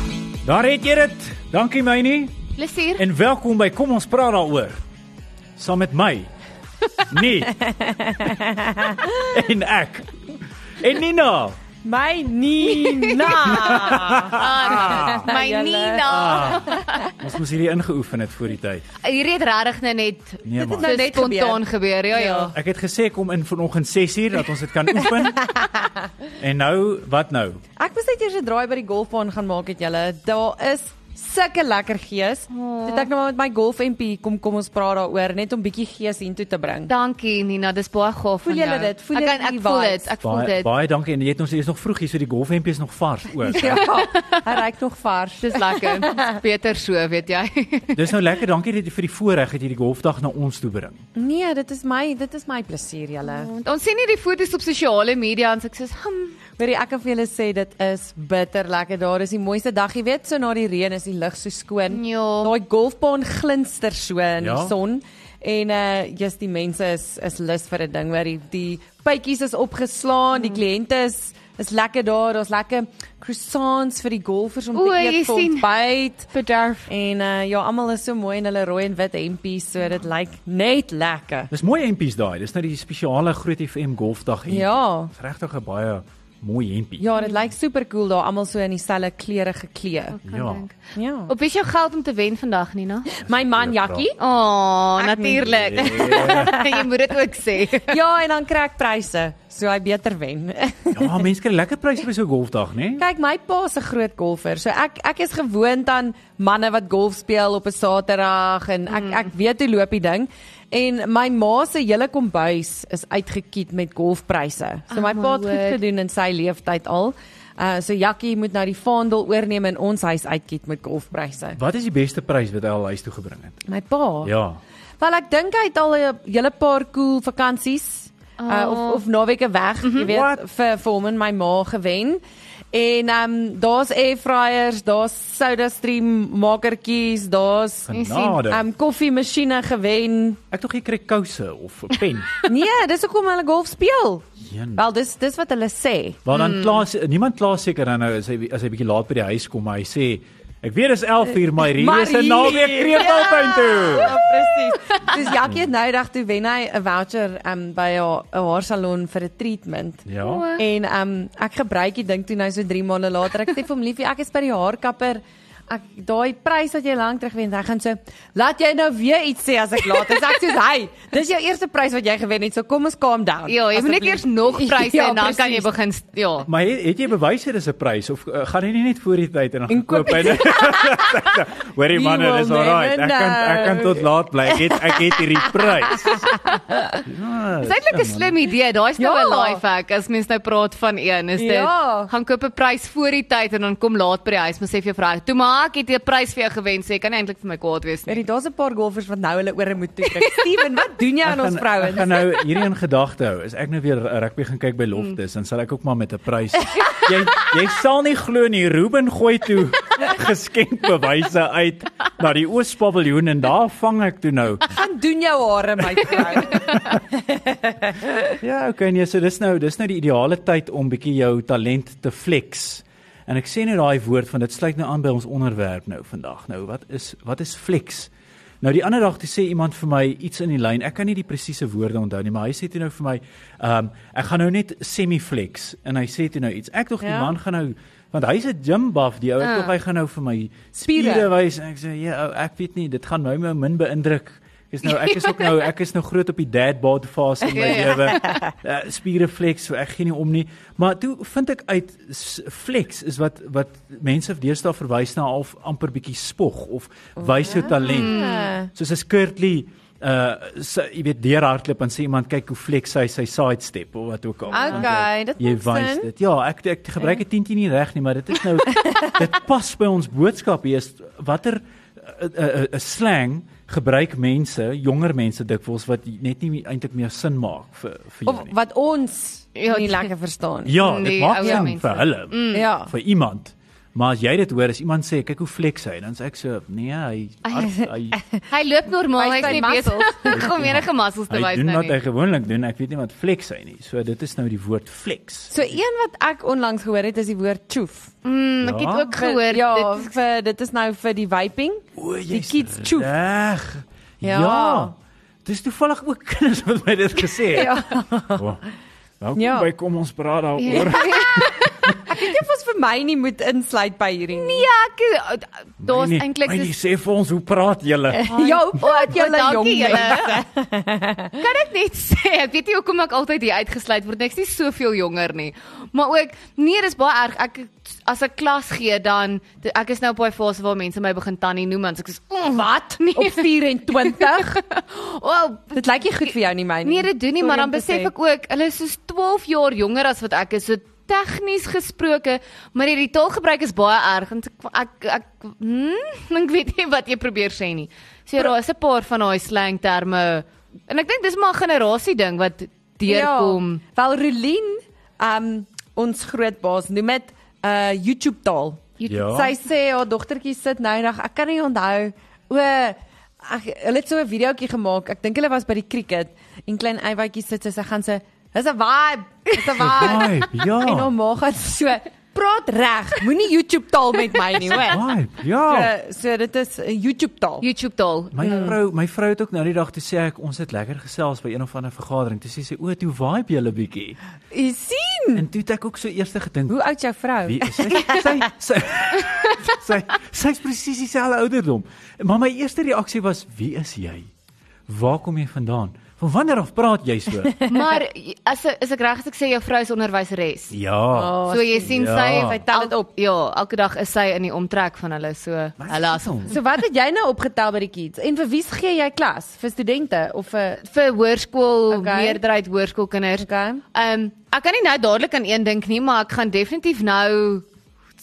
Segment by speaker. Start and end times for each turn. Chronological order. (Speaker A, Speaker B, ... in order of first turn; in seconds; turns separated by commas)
Speaker A: 0.4-2.4, Speaker B: 2.6-3.0, Speaker A: 3.0-4.8, Speaker A: 5.6-6.3, Speaker A: 7.1-7.6, Speaker C: 7.6-9.0, Speaker A: 9.1-10.1, Speaker A: 10.8-11.6, Speaker C: 11.8-17.0, Speaker B: 12.8-17.1, Speaker A: 13.4-15.3, Speaker A: 16.0-18.9, Speaker B: 19.0-22.5, Speaker A: 20.4-21.0, Speaker C: 20.6-21.6, Speaker C: 22.1-22.5, Speaker A: 22.5-25.5, Speaker C: 25.4-26.0, Speaker A: 26.4-27.6, Speaker C: 27.8-36.9, Speaker B: 32.5-33.1, Speaker B: 36.9-40.7, Speaker C: 38.4-40.1, Speaker A: 40.2-43.9, Speaker C: 43.5-46.4, Speaker B: 43.5-44.4, Speaker B: 45.4-48.0, Speaker A: 47.9-51.0, Speaker C: 51.1-53.5, Speaker B: 53.2-56.4, Speaker C: 56.6-76.3, Speaker B: 61.9-62.5, Speaker A: 64.4-64.7, Speaker B: 74.7-75.7, Speaker B: 76.3-76.9, Speaker C: 76.8-81.5, Speaker A: 81.5-87.1, Speaker C: 84.5-85.1, Speaker C: 87.0-90.2, Speaker B: 90.2-93.1, Speaker A: 90.3-90.6, Speaker C: 90.9-91.3, Speaker C: 93.1-94.2, Speaker A: 93.2-94.1, Speaker B: 94.2-98.0, Speaker C: 95.0-96.8, Speaker A: 95.5-96.5, Speaker C: 97.8-101.2, Speaker A: 100.9-103.0, Speaker C: 103.0-121.6, Speaker B: 108.9-109.3, Speaker B: 114.9-115.8, Speaker A: 121.5-123.6, Speaker C: 123.7-124.3, Speaker A: 124.2-124.6, Speaker C: 125.0-132.2, Speaker B: 128.4-129.0, Speaker B: 129.8-130.1, Speaker A: 130.0-130.4, Speaker C: 132.7-137.9, Speaker A: 137.8-138.6, Speaker B: 137.9-138.4, Speaker C: 138.4-140.4, Speaker A: 140.5-142.3, Speaker C: 142.4-146.2, Speaker A: 144.4-144.8, Speaker A: 146.2-154.2, Speaker B: 146.3-146.8, Speaker C: 151.6-175.7, Speaker B: 154.7-155.2, Speaker A: 155.3-155.6, Speaker A: 160.1-160.5, Speaker B: 160.2-160.6, Speaker B: 173.5-176.5, Speaker A: 176.4-186.3, Speaker C: 179.7-181.2, Speaker C: 181.9-187.0, Speaker A: 187.0-188.3, Speaker B: 187.6-198.2, Speaker C: 189.0-189.6, Speaker C: 191.4-192.1, Speaker C: 198.1-202.3, Speaker A: 201.2-214.7, Speaker C: 214.7-218.4, Speaker A: 216.0-217.0, Speaker A: 218.4-258.1, Speaker C: 237.0-237.3, Speaker B: 239.4-239.7, Speaker C: 240.9-241.3, Speaker B: 244.8-245.6, Speaker B: 247.4-248.3, Speaker C: 247.9-248.5, Speaker C: 257.2-258.7, Speaker B: 257.6-258.5, Speaker A: 258.7-278.5, Speaker C: 264.5-266.1, Speaker B: 264.5-264.9, Speaker C: 268.8-269.1, Speaker C: 278.2-280.8, Speaker B: 279.5-280.1, Speaker A: 280.6-288.2, Speaker B: 280.8-282.7, Speaker C: 281.4-281.7, Speaker C: 282.5-282.9, Speaker C: 287.8-288.4, Speaker B: 288.5-292.0, Speaker C: 289.1-290.4, Speaker A: 290.3-295.5, Speaker C: 295.5-298.1, Speaker B: 298.2-300.1, Speaker A: 298.6-299.2, Speaker C: 299.1-303.1, Speaker A: 301.9-304.9, Speaker C: 304.2-304.9, Speaker A: 305.4-307.8, Speaker C: 307.5-308.4, Speaker A: 308.3-308.6, Speaker A: 309.2-312.0, Speaker C: 309.4-309.7, Speaker B: 310.6-311.7, Speaker C: 310.7-314.6, Speaker B: 314.3-316.7, Speaker A: 315.8-318.3, Speaker C: 318.1-321.4, Speaker B: 318.3-320.4, Speaker B: 321.4-353.8, Speaker C: 332.5-334.6, Speaker C: 335.7-338.1, Speaker C: 353.0-375.0, Speaker A: 359.1-359.5, Speaker A: 369.7-371.1, Speaker A: 374.8-375.9, Speaker C: 375.6-377.6, Speaker B: 377.6-378.6, Speaker A: 378.3-384.2, Speaker C: 378.4-378.7, Speaker C: 384.5-385.4, Speaker A: 385.3-386.8, Speaker C: 386.7-388.4, Speaker A: 387.4-394.3, Speaker A: 394.9-397.5, Speaker C: 397.5-397.9, Speaker B: 397.7-400.8, Speaker A: 400.7-402.6, Speaker C: 401.1-403.1, Speaker B: 401.5-406.5, Speaker A: 405.8-406.6, Speaker C: 406.5-410.8, Speaker B: 410.8-417.6, Speaker C: 411.9-412.4, Speaker C: 413.4-413.8